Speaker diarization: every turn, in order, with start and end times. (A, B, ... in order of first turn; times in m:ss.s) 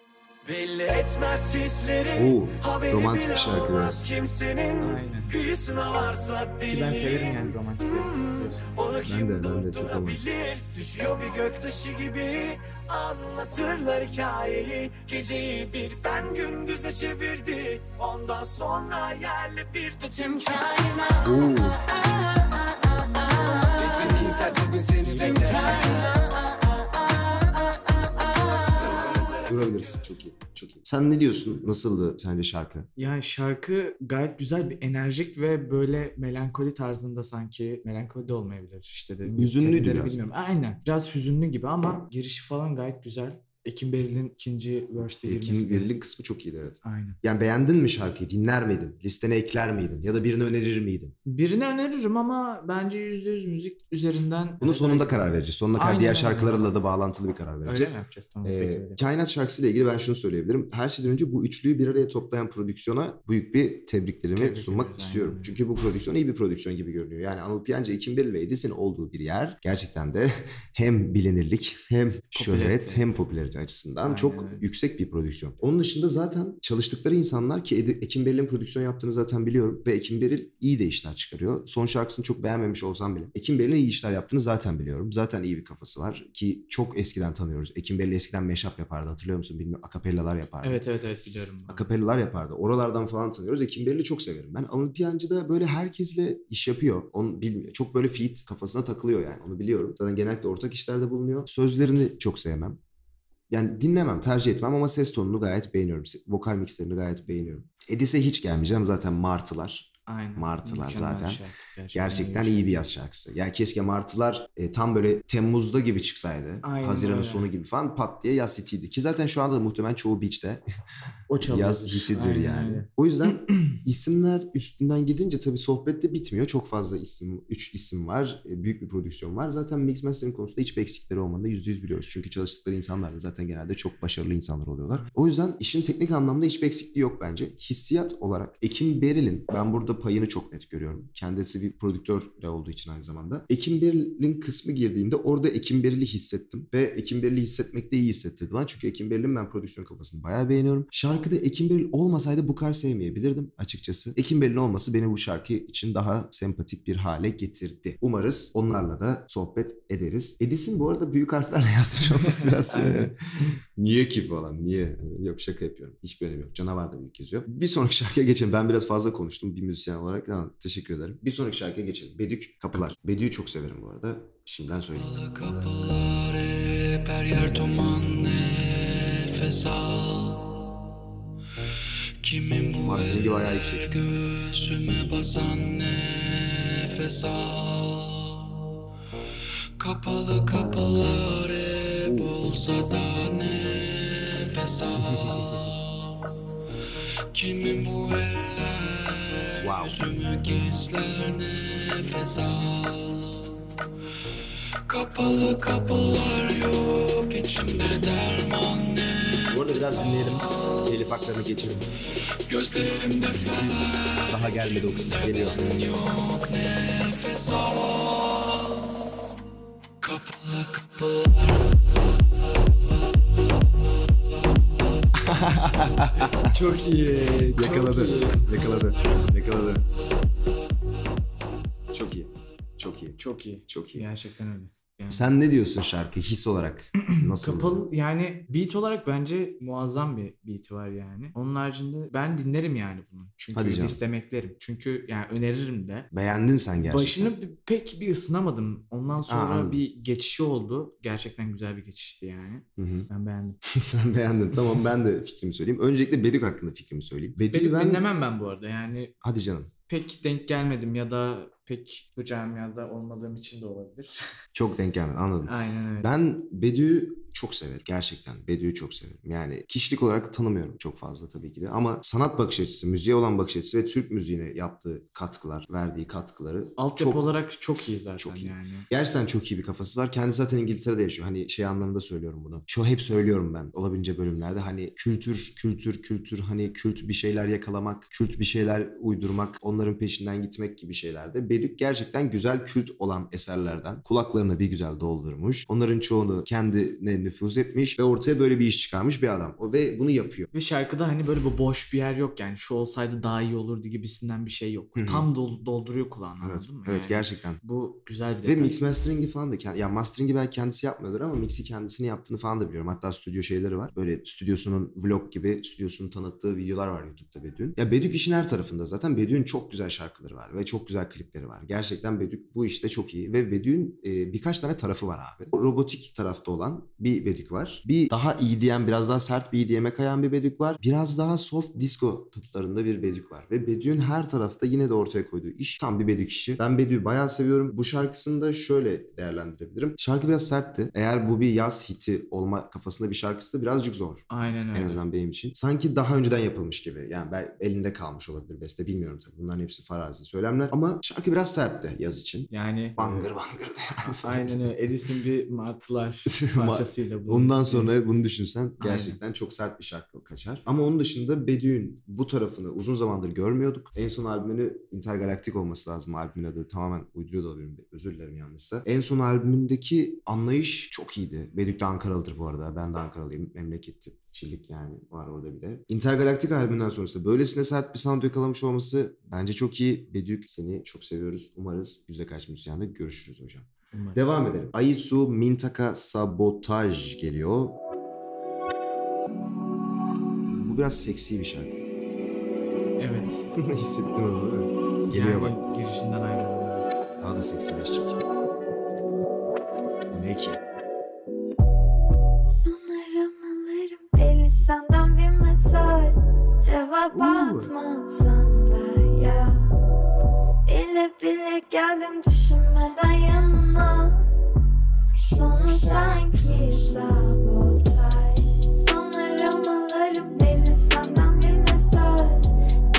0:00.4-0:30.0 A
0:02.2-0:04.1 B
0:04.8-0:05.4 C
0:06.6-0:08.7 C
0:09.0-0:10.3 B
0:21.2-0:21.8 B
0:23.8-0:24.5 B
0:25.0-0:26.0 C
0:29.4-0:32.9 B
0:33.0-0:45.9 C
0:39.3-0:40.2 B
0:45.2-0:51.2 B
0:46.8-0:47.2 C
0:51.3-0:56.8 C
0:54.6-1:30.8 B
0:57.7-0:59.0 C
1:04.4-1:05.6 C
1:12.4-1:13.1 C
1:14.0-1:14.7 C
1:30.6-1:31.9 C
1:31.7-1:42.8 B
1:43.5-2:00.6 B
1:50.1-1:52.9 C
1:56.6-1:57.5 C
2:01.3-2:02.9 C
2:01.4-2:55.1 B
2:42.7-2:43.1 C
2:55.0-3:00.6 D
3:02.2-3:08.6 D
3:02.9-3:03.9 B
3:09.8-3:16.3 D
3:12.1-3:12.3 B
3:15.0-3:15.6 B
3:17.3-3:23.6 D
3:19.6-3:20.0 B
3:24.9-3:30.9 D
3:29.5-3:31.9 B
3:32.5-3:39.0 D
3:33.4-3:35.6 B
3:40.0-3:41.7 D
3:45.2-3:46.6 B
3:46.4-3:48.5 C
3:47.5-3:49.8 B
3:51.9-3:54.1 B
3:53.2-3:55.4 C
3:55.1-3:57.9 B
3:57.0-4:06.1 C
4:03.5-4:04.0 B
4:06.1-4:07.3 B
4:06.8-4:13.6 C
4:09.3-4:09.8 B
4:12.8-4:13.1 B
4:13.7-4:18.1 B
4:17.5-4:19.2 C
4:19.2-4:19.7 B
4:19.9-4:24.3 C
4:24.6-4:37.3 B
4:25.4-4:26.1 C
4:36.8-4:38.9 C
4:38.2-5:00.5 B
5:00.5-5:08.8 C
5:05.0-5:05.3 B
5:06.4-5:07.6 B
5:08.4-5:54.7 B
5:44.3-5:45.0 C
5:52.5-5:53.3 C
5:54.2-5:57.9 C
5:56.3-6:27.8 B
5:58.8-5:59.2 C
6:23.9-6:24.2 C
6:30.5-6:31.8 B
6:33.0-6:33.5 C
6:33.6-6:35.6 B
6:35.1-6:36.9 C
6:37.2-6:38.2 B
6:40.1-6:40.6 B
6:42.5-6:49.7 E
6:47.1-6:47.7 C
6:50.7-6:54.3 E
6:55.2-7:02.5 E